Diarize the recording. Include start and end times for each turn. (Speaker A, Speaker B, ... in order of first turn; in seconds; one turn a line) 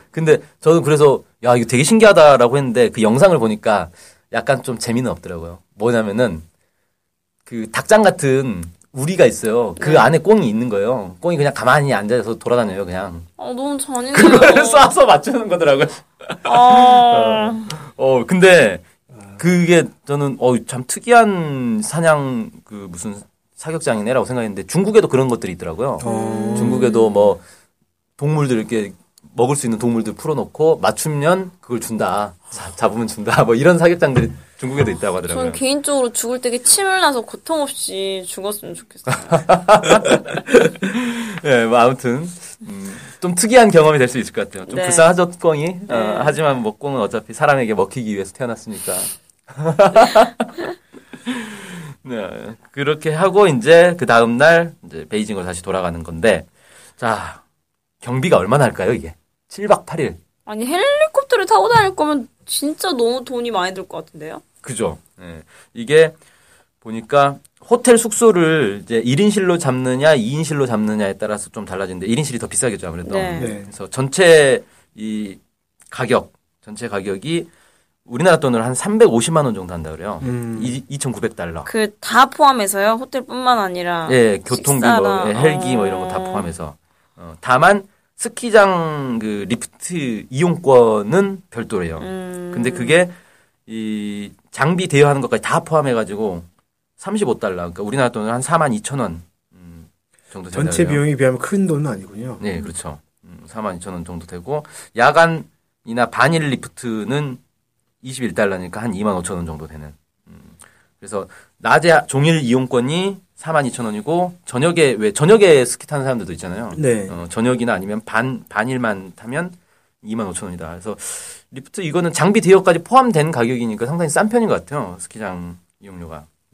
Speaker A: 0.1-6.5
Speaker A: 7.5-13.3
Speaker B: 9.8-10.1
Speaker B: 13.4-14.9
Speaker A: 14.1-27.4
Speaker B: 16.4-17.7
Speaker C: 26.0-26.9
Speaker B: 26.0-27.3
Speaker A: 28.2-35.6
Speaker B: 35.2-39.5
Speaker A: 39.3-50.5
Speaker B: 44.7-45.1
Speaker B: 45.9-46.4
Speaker A: 51.3-57.4
Speaker A: 58.0-60.2
Speaker B: 60.5-64.4
Speaker A: 64.6-66.2
Speaker A: 66.8-75.4
Speaker B: 73.0-73.5
Speaker C: 73.4-73.7
Speaker A: 75.9-77.5
Speaker A: 78.1-81.7
Speaker C: 80.2-80.8
Speaker B: 81.7-86.5
Speaker A: 84.1-93.2
Speaker B: 92.0-93.0
Speaker A: 93.7-96.5
Speaker A: 97.0-101.0
Speaker C: 100.5-102.4
Speaker A: 102.4-107.4
Speaker A: 108.0-126.3
Speaker C: 116.7-117.2